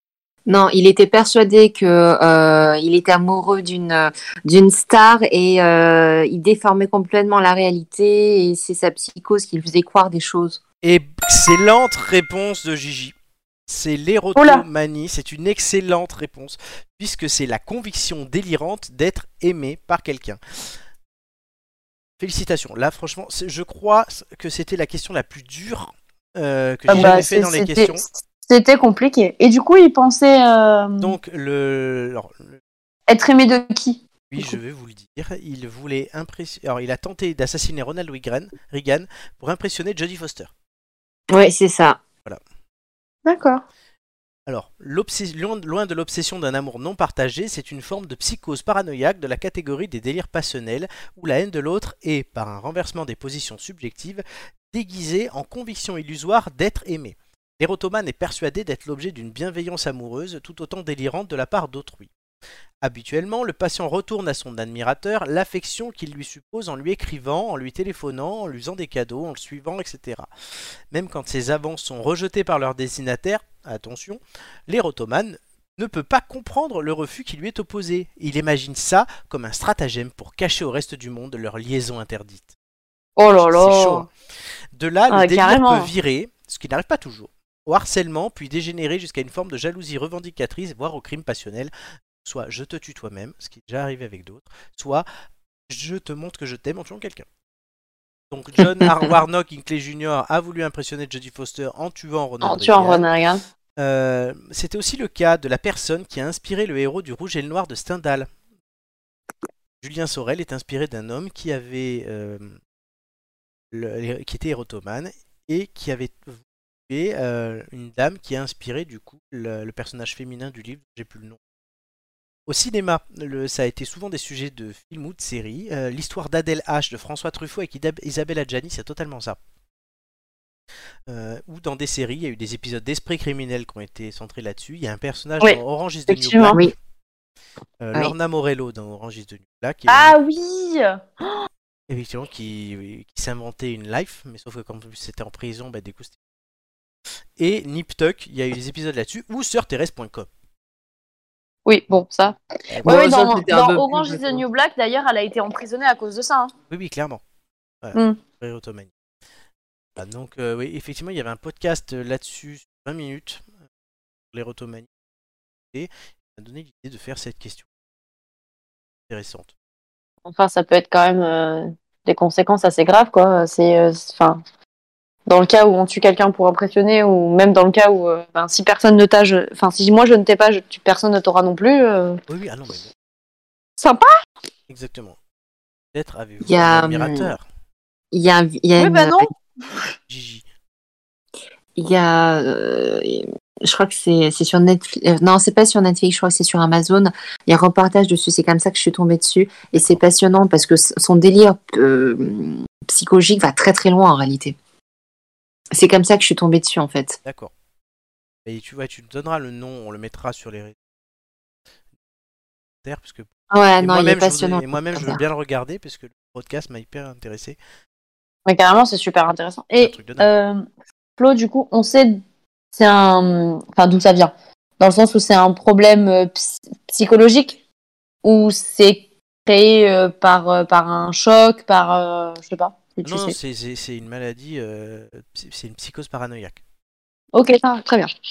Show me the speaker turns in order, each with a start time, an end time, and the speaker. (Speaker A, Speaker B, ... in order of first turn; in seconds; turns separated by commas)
Speaker A: 0.5-10.6, Speaker B: 10.8-13.2, Speaker B: 13.7-20.8, Speaker C: 14.4-14.7, Speaker B: 22.2-28.0, Speaker C: 26.9-31.1, Speaker A: 26.9-27.3, Speaker B: 31.0-32.6, Speaker C: 33.1-34.5, Speaker B: 34.3-40.5, Speaker A: 41.3-42.0, Speaker C: 43.3-43.6, Speaker B: 44.5-62.1, Speaker B: 62.8-70.3, Speaker B: 70.9-82.5, Speaker C: 83.2-84.1, Speaker B: 83.4-84.1, Speaker B: 84.8-91.7, Speaker C: 85.1-85.9, Speaker B: 92.2-95.1, Speaker B: 95.7-97.3, Speaker B: 98.3-103.1, Speaker C: 102.4-103.4, Speaker B: 103.8-108.3, Speaker B: 109.8-112.6, Speaker B: 113.7-121.4, Speaker B: 122.5-129.4, Speaker B: 131.1-136.7, Speaker C: 135.4-136.6, Speaker B: 137.8-140.2, Speaker C: 139.9-141.4, Speaker B: 141.9-146.2, Speaker B: 147.4-150.3, Speaker C: 151.7-156.5, Speaker A: 152.8-154.4, Speaker B: 156.7-157.2, Speaker B: 157.8-158.9, Speaker B: 160.0-163.5, Speaker B: 164.3-164.9, Speaker B: 165.7-167.7, Speaker B: 169.1-169.5, Speaker C: 170.3-174.4, Speaker C: 175.3-182.2, Speaker B: 182.3-182.9, Speaker C: 183.8-184.1, Speaker B: 184.7-185.2, Speaker B: 185.9-187.4, Speaker A: 186.4-187.3, Speaker A: 188.1-189.3, Speaker C: 188.8-189.8, Speaker B: 190.1-190.4, Speaker A: 191.8-204.6, Speaker B: 199.7-200.1, Speaker A: 205.7-207.2, Speaker B: 207.2-207.5, Speaker B: 208.4-210.8, Speaker B: 212.8-217.6, Speaker A: 213.5-215.2, Speaker C: 218.5-220.6, Speaker B: 219.8-220.3, Speaker C: 221.2-222.2, Speaker C: 222.7-227.6, Speaker C: 228.2-233.4, Speaker B: 233.0-236.6, Speaker C: 237.3-238.1